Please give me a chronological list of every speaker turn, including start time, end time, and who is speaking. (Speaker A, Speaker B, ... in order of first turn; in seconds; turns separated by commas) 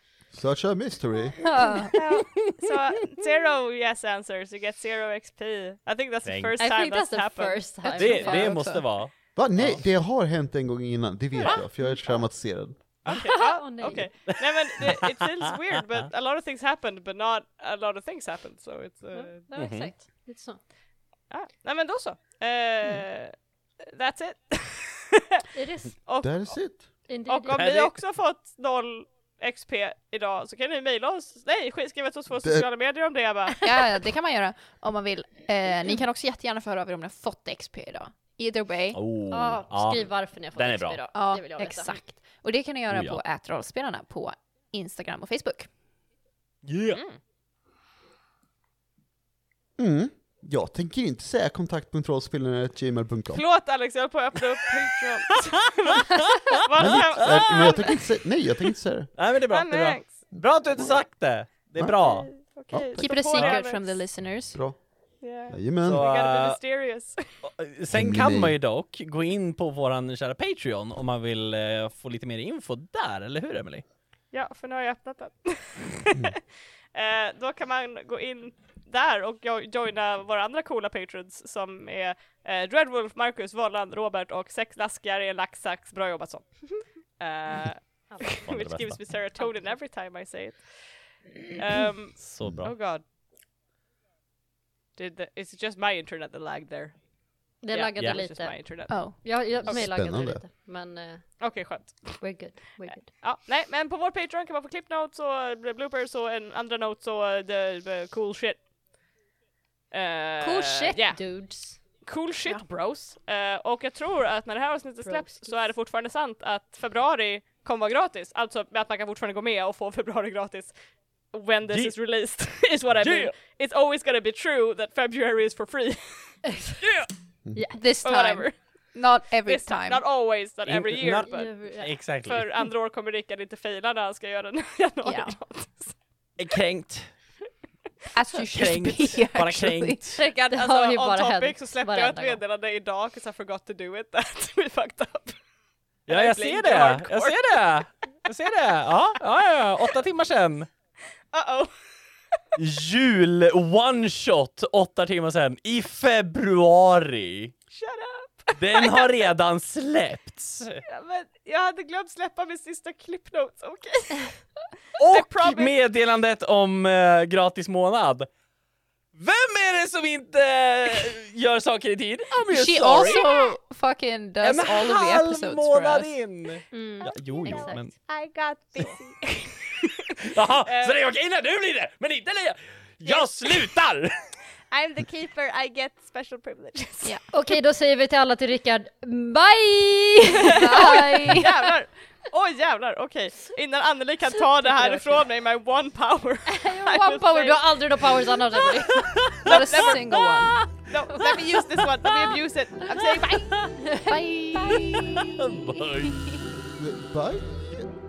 Speaker A: 0.3-1.5, Speaker B: 1.6-1.9, Speaker C: 1.9-8.4, Speaker D: 6.2-6.5, Speaker E: 6.6-8.7, Speaker D: 7.9-9.8, Speaker B: 8.1-8.8, Speaker A: 9.3-12.8, Speaker C: 13.1-19.4, Speaker E: 13.2-14.2, Speaker D: 13.8-15.2, Speaker E: 19.1-20.6, Speaker D: 19.5-19.9, Speaker C: 21.3-25.5, Speaker E: 25.6-26.0, Speaker C: 26.1-26.6, Speaker A: 26.2-26.9, Speaker E: 27.1-27.6, Speaker C: 27.3-33.6, Speaker D: 27.5-27.9, Speaker B: 33.6-39.0, Speaker D: 38.9-41.0, Speaker E: 39.3-42.1, Speaker B: 41.1-45.7, Speaker D: 42.9-43.2, Speaker D: 46.6-47.0, Speaker A: 49.8-53.4, Speaker C: 53.3-58.0, Speaker D: 56.1-57.9, Speaker A: 56.8-59.1, Speaker D: 59.1-62.3, Speaker C: 59.5-60.3, Speaker A: 60.3-62.0, Speaker C: 61.9-64.0, Speaker A: 62.7-63.4, Speaker B: 63.0-64.6, Speaker A: 64.5-66.1, Speaker C: 65.2-67.2, Speaker D: 65.8-66.6, Speaker D: 67.4-73.8, Speaker A: 67.9-68.6, Speaker C: 74.3-76.4, Speaker C: 76.9-93.0, Speaker E: 88.1-88.4, Speaker D: 88.4-89.1, Speaker E: 89.4-89.8, Speaker D: 92.2-92.8, Speaker C: 95.0-97.1, Speaker E: 97.6-101.7, Speaker C: 97.7-99.9, Speaker B: 98.9-99.2, Speaker A: 99.6-100.4, Speaker C: 101.4-108.7, Speaker E: 102.2-103.3, Speaker C: 109.9-126.4, Speaker E: 110.4-111.8, Speaker E: 115.0-115.6, Speaker D: 123.0-123.4, Speaker E: 126.5-126.8, Speaker D: 126.8-127.1, Speaker E: 127.5-127.8, Speaker B: 127.7-130.0, Speaker C: 128.0-128.6, Speaker C: 129.4-136.0, Speaker D: 130.7-132.6, Speaker E: 131.3-132.0, Speaker B: 135.0-135.4, Speaker D: 136.4-137.2, Speaker B: 138.1-140.0, Speaker D: 138.3-140.2, Speaker C: 140.2-145.4, Speaker E: 140.4-142.4, Speaker C: 146.1-147.9, Speaker D: 146.1-150.7, Speaker C: 151.3-151.8, Speaker D: 152.6-157.5, Speaker C: 157.7-159.3, Speaker D: 158.6-160.8, Speaker C: 160.8-164.4, Speaker D: 165.0-168.3, Speaker C: 165.0-165.8, Speaker D: 169.1-173.3, Speaker B: 172.5-176.2, Speaker D: 174.4-177.9, Speaker E: 176.7-177.8, Speaker C: 177.0-180.1, Speaker D: 180.1-184.1, Speaker C: 180.6-181.0, Speaker C: 183.0-183.7, Speaker C: 184.7-187.1, Speaker E: 187.3-191.4, Speaker C: 190.4-197.8, Speaker B: 190.4-191.5, Speaker E: 194.4-195.2, Speaker E: 196.5-199.3, Speaker D: 198.8-199.5, Speaker B: 199.3-200.6, Speaker C: 199.4-200.2, Speaker E: 200.2-201.6, Speaker C: 200.9-203.6, Speaker E: 203.6-205.0, Speaker B: 204.0-205.4, Speaker D: 204.7-206.2, Speaker B: 206.0-206.4, Speaker A: 206.8-207.9